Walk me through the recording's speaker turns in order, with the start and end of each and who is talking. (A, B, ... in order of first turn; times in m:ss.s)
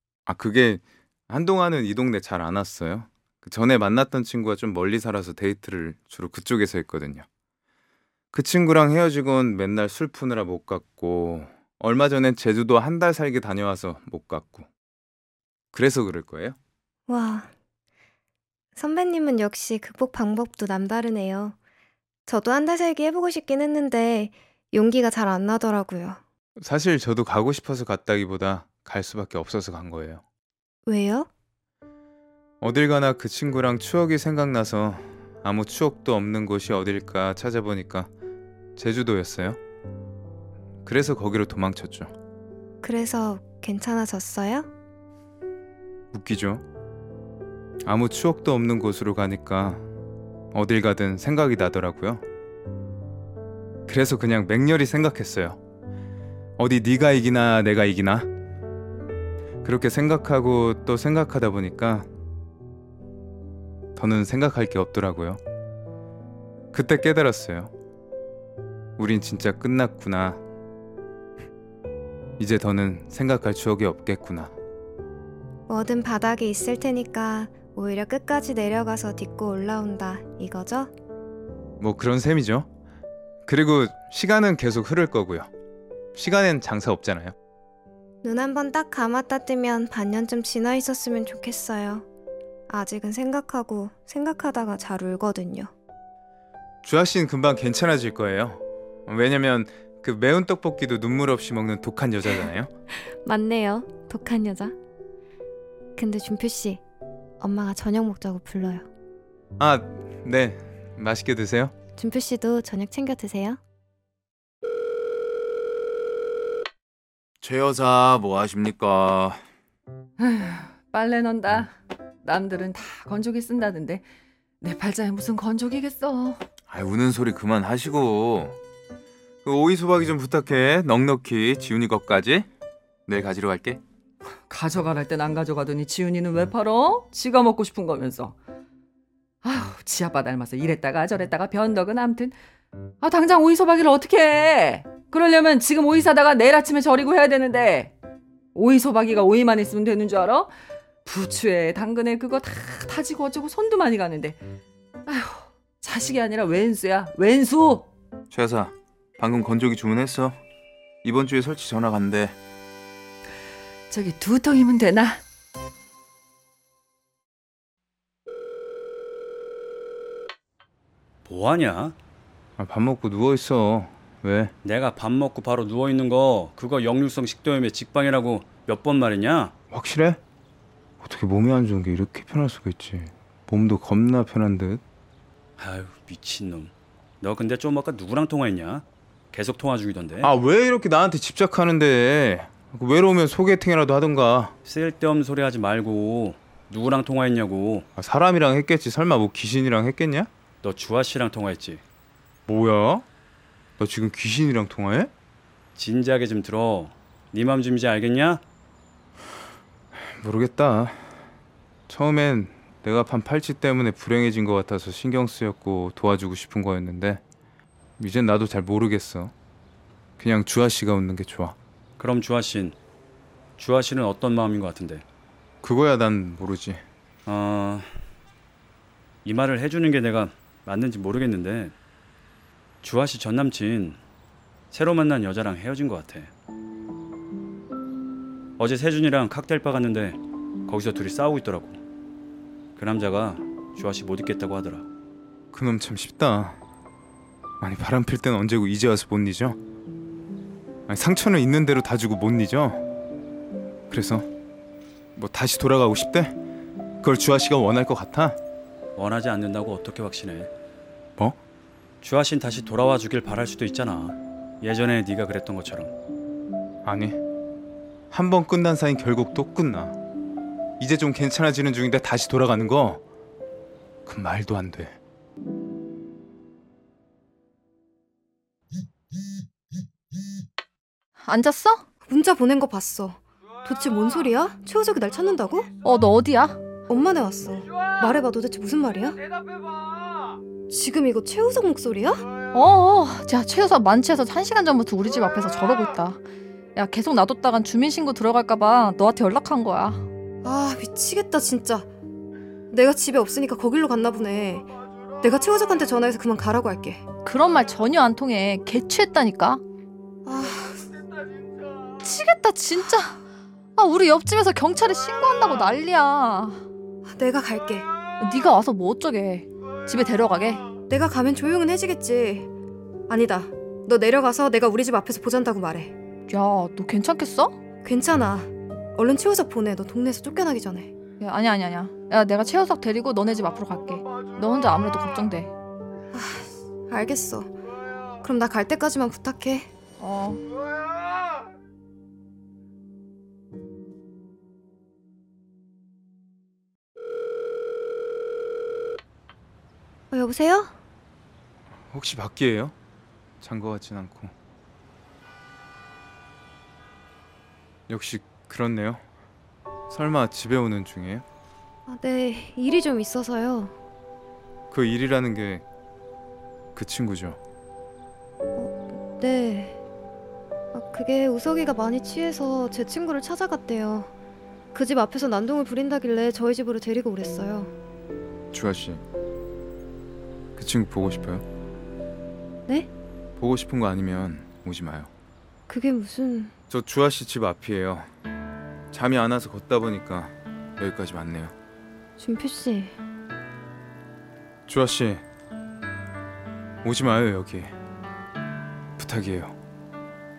0:00.3-0:07.3 A
0:08.3-0:14.7 A
0:15.7-0:16.6 A
0:17.1-0:17.5 B
0:18.8-0:21.6 B
0:22.3-0:26.2 B
0:26.6-0:30.2 A
0:30.9-0:31.3 B
0:32.6-0:38.1 A
0:38.8-0:39.6 A
0:40.8-0:42.1 A
0:42.8-0:44.7 B
0:46.1-0:46.6 A
0:47.8-0:49.8 A
0:50.5-0:52.2 A
0:53.9-0:55.6 A
0:56.6-0:58.3 A
0:59.6-1:02.1 A
1:04.0-1:05.4 A
1:06.7-1:07.7 A
1:09.0-1:10.4 A
1:12.4-1:14.5 A
1:15.7-1:20.9 B
1:21.8-1:22.7 A
1:23.5-1:25.5 A
1:26.2-1:27.3 A
1:28.2-1:32.1 B
1:32.7-1:35.7 B
1:36.8-1:42.7 A
1:42.9-1:44.8 B
1:46.0-1:46.8 B
1:47.4-1:48.9 B
1:49.6-1:51.7 A
1:52.0-1:53.6 B
1:57.4-1:59.4 A
2:00.2-2:01.7 C
2:02.2-2:04.0 C
2:04.6-2:06.4 C
2:06.7-2:08.6 A
2:09.4-2:12.5 A
2:13.1-2:13.8 A
2:14.5-2:18.4 C
2:19.4-2:22.4 C
2:23.0-2:27.9 C
2:28.5-2:30.5 C
2:31.0-2:34.4 C
2:35.1-2:37.9 C
2:38.3-2:40.4 A
2:41.0-2:42.4 A
2:43.9-2:45.2 C
2:51.2-2:52.0 D
2:52.6-2:54.5 A
2:54.6-2:59.5 D
2:59.7-3:00.2 A
3:01.0-3:04.8 A
3:05.6-3:10.3 D
3:10.2-3:14.5 A
3:14.6-3:17.9 D
3:18.0-3:20.3 A
3:20.6-3:21.8 D
3:22.5-3:23.1 A
3:23.8-3:25.1 A
3:25.8-3:28.4 D
3:30.2-3:31.0 A
3:31.9-3:37.2 A
3:38.0-3:39.3 A
3:40.2-3:41.6 A
3:42.0-3:42.8 D
3:43.6-3:45.0 D
3:45.6-3:46.8 A
3:47.3-3:47.9 D
3:49.2-3:51.8 D
3:52.8-3:54.0 D
3:54.7-3:56.3 D
3:58.6-4:01.8 D
4:02.8-4:04.9 D
4:05.5-4:06.6 A
4:07.6-4:09.6 A
4:10.9-4:12.8 A
4:13.9-4:14.3 A
4:15.2-4:16.4 A
4:17.0-4:18.4 A
4:19.0-4:20.5 D
4:22.0-4:25.9 D
4:26.8-4:27.2 A
4:28.1-4:30.0 A
4:30.8-4:33.0 A
4:34.1-4:35.0 A
4:41.2-4:41.8 E
4:42.0-4:45.7 B
4:45.8-4:46.6 E
4:46.9-4:49.2 B
4:50.7-4:52.3 B
4:52.5-4:56.2 E
4:56.8-5:00.1 E
5:00.4-5:01.9 B
5:02.7-5:04.7 B
5:05.2-5:07.0 B
5:07.2-5:09.6 E
5:10.2-5:10.9 B
5:12.0-5:13.2 E
5:13.8-5:16.6 E
5:17.1-5:17.9 B
5:18.2-5:20.6 E
5:20.9-5:22.5 B
5:23.1-5:25.9 B
5:26.3-5:27.6 E
5:27.8-5:30.9 B
5:31.2-5:35.5 E
5:36.1-5:37.5 B
5:38.2-5:39.7 B
5:40.0-5:40.4 E
5:50.1-5:50.8 B
5:51.9-5:52.8 A
5:53.4-5:54.3 A
5:57.9-5:59.0 A
5:59.9-6:01.2 A
6:01.9-6:03.7 B
6:04.7-6:05.6 A
6:06.8-6:07.4 A
6:08.6-6:09.8 B
6:10.7-6:14.1 B
6:14.7-6:17.7 B
6:18.5-6:19.0 A
6:20.6-6:21.4 A
6:23.4-6:25.1 A
6:25.7-6:26.5 B
6:26.7-6:28.1 A
6:28.9-6:31.5 A
6:32.2-6:33.0 B
6:34.7-6:35.2 A
6:36.8-6:37.7 A
6:39.0-6:39.6 A